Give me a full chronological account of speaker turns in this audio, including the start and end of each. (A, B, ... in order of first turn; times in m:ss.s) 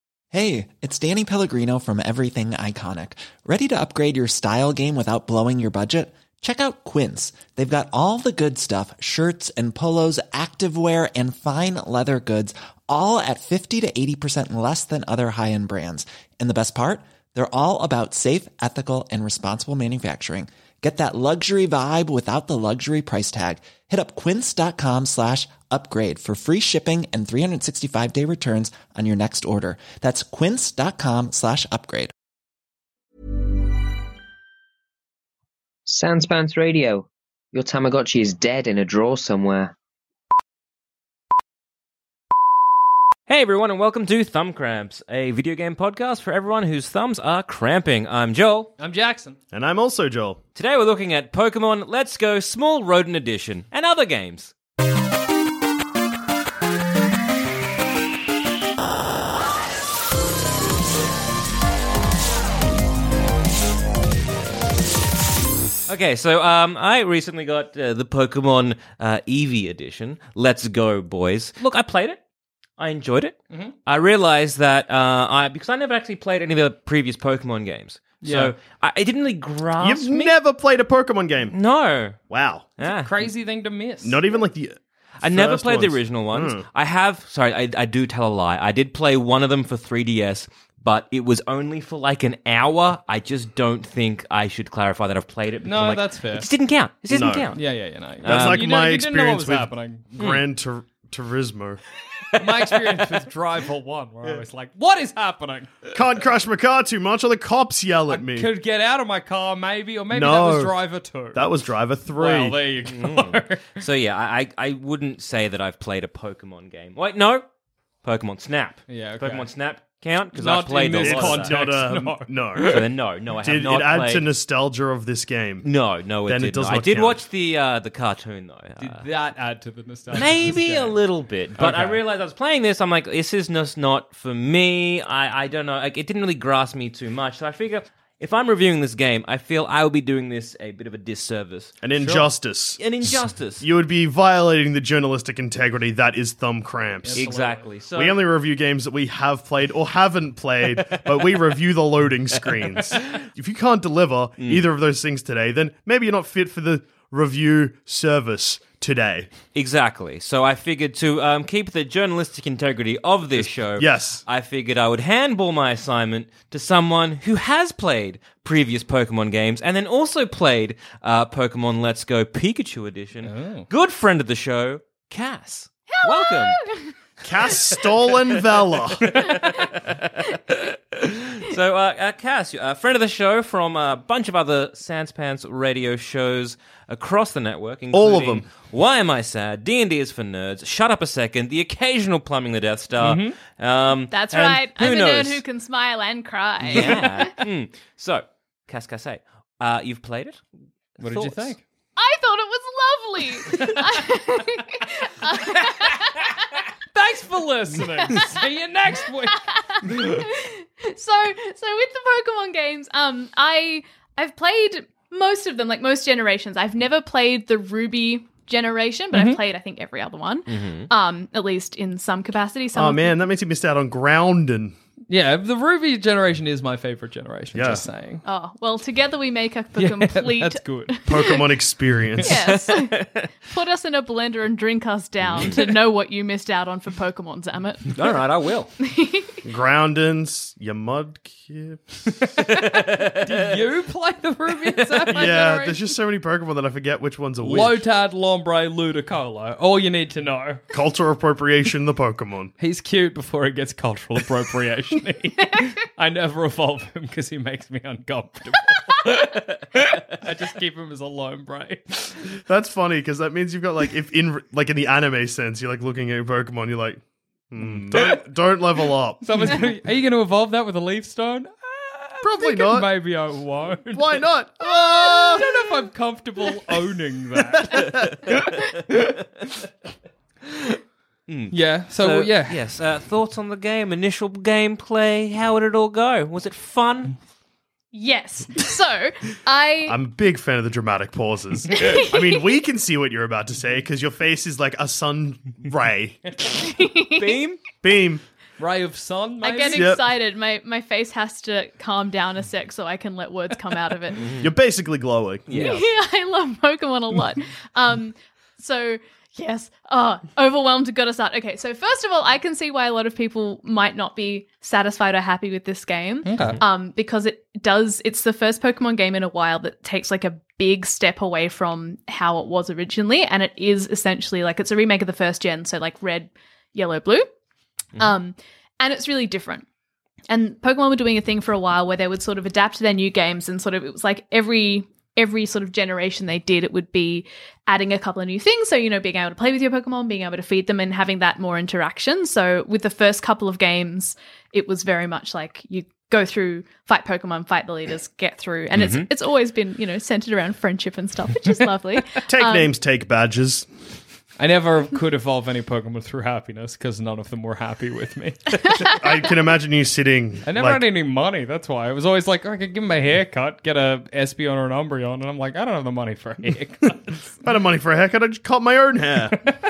0:00.3-0:32.1 A
0:35.8-0:39.7 B
0:43.3-0:48.7 C
0:48.8-0:49.4 D
0:49.5-0:50.4 E
0:50.6-0:54.5 C
1:05.9-1:12.2 C
1:12.8-1:20.3 C
1:18.2-1:18.5 D
1:19.8-1:21.5 E
1:21.5-1:22.2 C
1:22.3-1:22.7 E
1:22.8-1:23.1 C
1:22.8-1:24.2 D
1:24.0-1:26.6 E
1:25.2-1:37.6 C
1:35.6-1:36.5 D
1:37.1-1:37.6 E
1:37.5-1:40.1 D
1:38.2-1:38.6 C
1:38.2-1:41.8 E
1:42.4-1:45.9 D
1:42.4-1:43.0 C
1:45.9-1:48.5 E
1:48.1-1:51.5 D
1:50.1-1:52.6 E
1:52.0-1:53.8 D
1:52.8-1:57.4 C
1:58.0-2:01.5 C
1:58.9-1:59.5 D
2:00.3-2:02.4 D
2:01.0-2:05.7 E
2:02.6-2:04.2 C
2:05.6-2:09.0 C
2:06.3-2:07.2 E
2:08.8-2:11.0 D
2:10.1-2:21.8 C
2:11.6-2:12.0 D
2:21.8-2:27.2 E
2:21.9-2:22.3 D
2:22.8-2:23.6 C
2:27.0-2:27.8 D
2:27.1-2:28.2 C
2:27.9-2:39.3 E
2:30.9-2:31.3 C
2:34.4-2:34.6 C
2:39.5-2:56.6 C
2:43.4-2:44.2 E
2:53.2-2:53.7 D
2:55.9-2:56.9 F
2:57.2-2:59.3 E
2:59.1-3:15.4 C
3:07.9-3:08.4 E
3:13.0-3:13.4 D
3:14.1-3:17.4 F
3:16.7-3:20.4 C
3:21.0-3:21.5 C
3:21.0-3:21.6 D
3:22.0-3:26.5 F
3:23.5-3:23.9 D
3:26.9-3:30.2 D
3:28.0-3:28.4 F
3:29.2-3:43.1 F
3:39.1-3:39.4 D
3:40.5-3:40.9 C
3:42.8-3:44.7 E
3:45.1-3:48.2 D
3:47.5-3:47.8 E
3:48.2-3:51.4 F
3:49.8-3:51.0 D
3:51.1-3:52.4 E
3:52.2-3:58.0 F
3:52.7-3:53.3 C
3:57.9-3:58.7 C
3:58.8-3:59.3 F
3:59.4-4:02.0 E
4:02.4-4:03.5 C
4:03.2-4:05.8 D
4:04.7-4:05.1 C
4:05.1-4:07.8 E
4:07.4-4:10.6 D
4:10.7-4:12.5 E
4:12.6-4:22.2 D
4:22.4-4:27.0 E
4:27.5-4:29.6 E
4:27.7-4:28.2 D
4:29.2-4:34.2 D
4:32.2-4:33.0 E
4:33.9-4:35.6 E
4:34.8-4:35.5 F
4:35.0-4:39.0 D
4:41.3-4:47.1 C
4:41.5-4:42.6 D
4:47.9-4:50.0 F
4:49.9-4:56.2 E
4:51.7-4:52.1 F
4:56.5-4:57.4 F
4:57.2-4:57.6 C
4:57.8-4:58.2 E
4:58.6-4:59.9 D
4:59.4-5:04.2 F
4:59.7-5:00.0 E
5:04.2-5:04.5 C
5:04.4-5:05.6 E
5:05.5-5:05.8 C
5:05.6-5:27.3 F
5:16.2-5:16.6 D
5:28.0-5:29.6 F
5:30.3-5:52.7 F
5:48.7-5:49.1 C
5:52.2-5:53.7 E
5:54.4-5:58.9 D
5:58.9-6:00.8 E
6:00.4-6:07.2 D
6:07.4-6:09.4 E